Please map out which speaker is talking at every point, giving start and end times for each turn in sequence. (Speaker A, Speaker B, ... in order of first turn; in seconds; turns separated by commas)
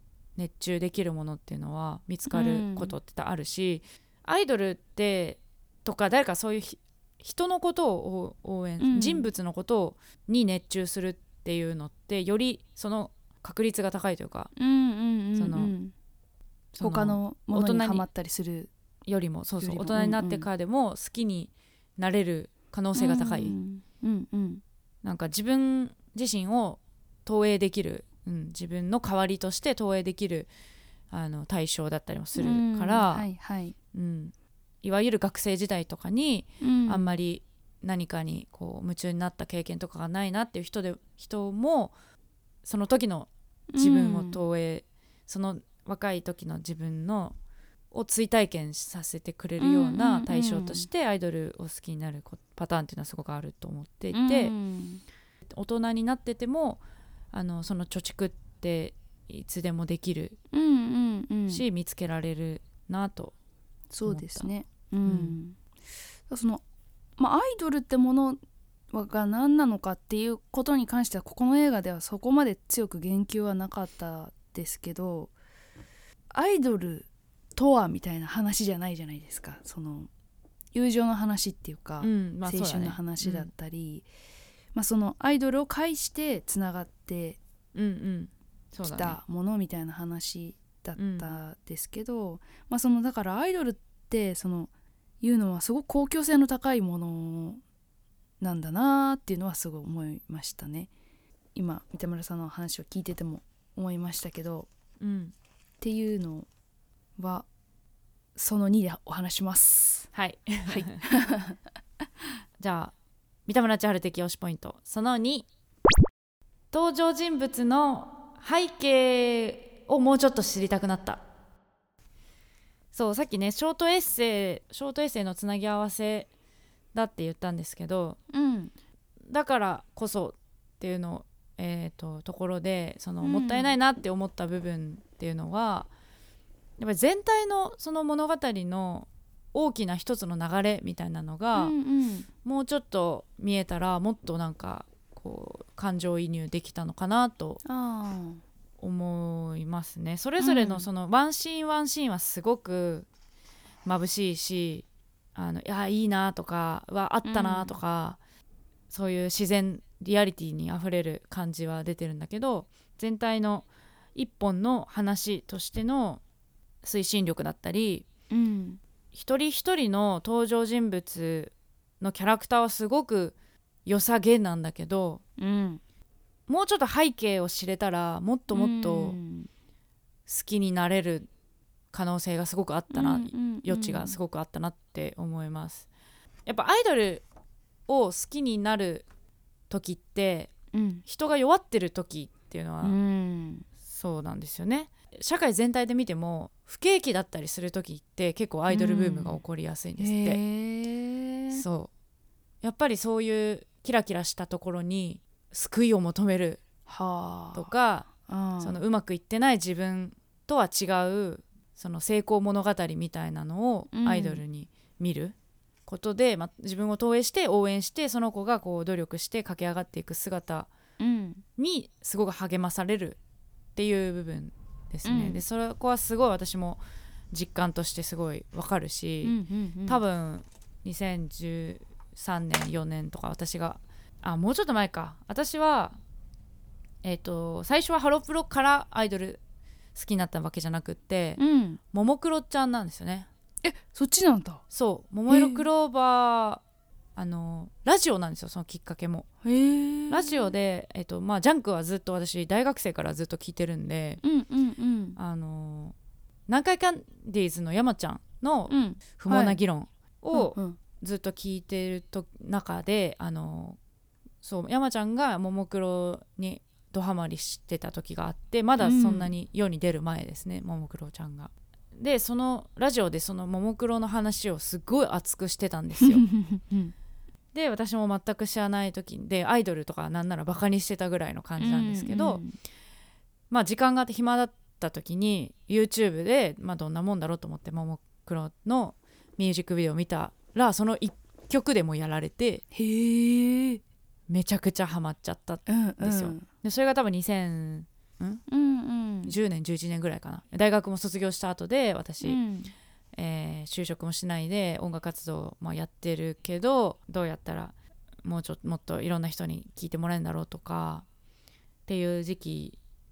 Speaker A: 0.4-14.5, Speaker B: 2.3-3.0, Speaker B: 8.8-9.3, Speaker B: 14.6-15.9, Speaker A: 15.4-15.7, Speaker A: 16.7-18.1, Speaker B: 16.8-18.7, Speaker A: 19.1-23.6, Speaker B: 19.6-20.5, Speaker B: 22.9-24.6, Speaker A: 25.0-30.5, Speaker A: 31.1-33.3, Speaker B: 32.4-33.8, Speaker A: 33.9-41.9, Speaker B: 36.6-37.1, Speaker A: 42.6-47.4, Speaker B: 43.7-44.4, Speaker A: 47.9-54.5, Speaker B: 49.6-50.9, Speaker B: 54.1-55.0, Speaker A: 55.5-56.8, Speaker A: 57.3-60.4, Speaker B: 60.5-61.6, Speaker A: 61.5-63.3, Speaker B: 63.9-65.6, Speaker A: 64.0-64.5, Speaker A: 65.0-65.4, Speaker B: 66.3-66.6, Speaker B: 67.2-68.4, Speaker B: 68.9-75.3, Speaker B: 76.3-80.1, Speaker B: 80.7-84.1, Speaker A: 82.0-83.5, Speaker B: 84.7-87.4, Speaker A: 87.8-89.2, Speaker B: 88.8-94.7, Speaker A: 91.0-91.3, Speaker B: 95.2-97.6, Speaker B: 98.4-100.9, Speaker B: 101.5-104.7, Speaker A: 105.0-105.3, Speaker B: 105.8-106.5, Speaker B: 107.2-107.5, Speaker B: 108.3-110.1, Speaker A: 110.1-111.0, Speaker B: 110.7-111.6, Speaker A: 112.6-112.9, Speaker A: 113.5-115.5, Speaker A: 116.7-121.2, Speaker A: 122.9-126.3, Speaker A: 126.9-128.2, Speaker B: 128.3-128.7, Speaker A: 129.3-135.9, Speaker B: 133.2-133.8, Speaker A: 136.8-141.8, Speaker B: 141.6-142.3, Speaker A: 142.4-147.6, Speaker B: 147.7-148.4, Speaker A: 148.8-153.1, Speaker B: 150.4-150.9, Speaker A: 153.8-158.2, Speaker B: 157.2-157.8, Speaker A: 158.9-166.2, Speaker A: 166.8-168.1, Speaker B: 168.3-168.8, Speaker A: 169.1-173.3, Speaker A: 173.9-175.2, Speaker B: 175.4-175.8, Speaker A: 176.5-179.2, Speaker B: 178.5-179.5, Speaker A: 180.3-181.3, Speaker A: 181.9-185.9, Speaker B: 182.9-184.2, Speaker A: 186.5-187.2, Speaker A: 187.9-189.1, Speaker A: 189.7-190.5, Speaker B: 190.7-191.0, Speaker A: 191.1-193.0, Speaker B: 192.8-193.7, Speaker A: 193.9-200.4, Speaker B: 198.7-199.4, Speaker B: 200.0-201.6, Speaker A: 201.5-201.9, Speaker A: 202.6-206.6, Speaker B: 206.9-208.8, Speaker A: 207.6-215.3, Speaker B: 213.9-214.4, Speaker A: 215.9-220.7, Speaker B: 221.0-221.4, Speaker A: 221.6-223.2, Speaker A: 223.8-226.8, Speaker B: 225.1-225.4, Speaker A: 227.3-229.4, Speaker B: 229.2-230.0, Speaker A: 229.9-236.0, Speaker A: 237.0-239.4, Speaker A: 239.9-241.4, Speaker B: 241.4-241.8, Speaker A: 241.9-243.3, Speaker B: 243.6-244.6, Speaker A: 244.7-246.6, Speaker B: 245.3-245.7, Speaker A: 247.2-249.3, Speaker B: 249.4-250.5, Speaker A: 250.1-254.2, Speaker B: 254.2-255.2, Speaker A: 255.2-255.9, Speaker A: 256.5-263.8, Speaker B: 258.7-259.6, Speaker B: 260.3-260.8, Speaker A: 264.4-276.3, Speaker B: 268.8-269.3, Speaker B: 276.0-276.9, Speaker A: 277.5-282.4, Speaker B: 281.6-282.6, Speaker A: 283.5-292.6, Speaker B: 292.7-293.8, Speaker A: 294.3-298.4, Speaker B: 295.7-296.5, Speaker B: 298.5-299.4, Speaker A: 299.2-302.4, Speaker B: 302.2-302.7, Speaker A: 303.1-311.1, Speaker A: 311.9-312.8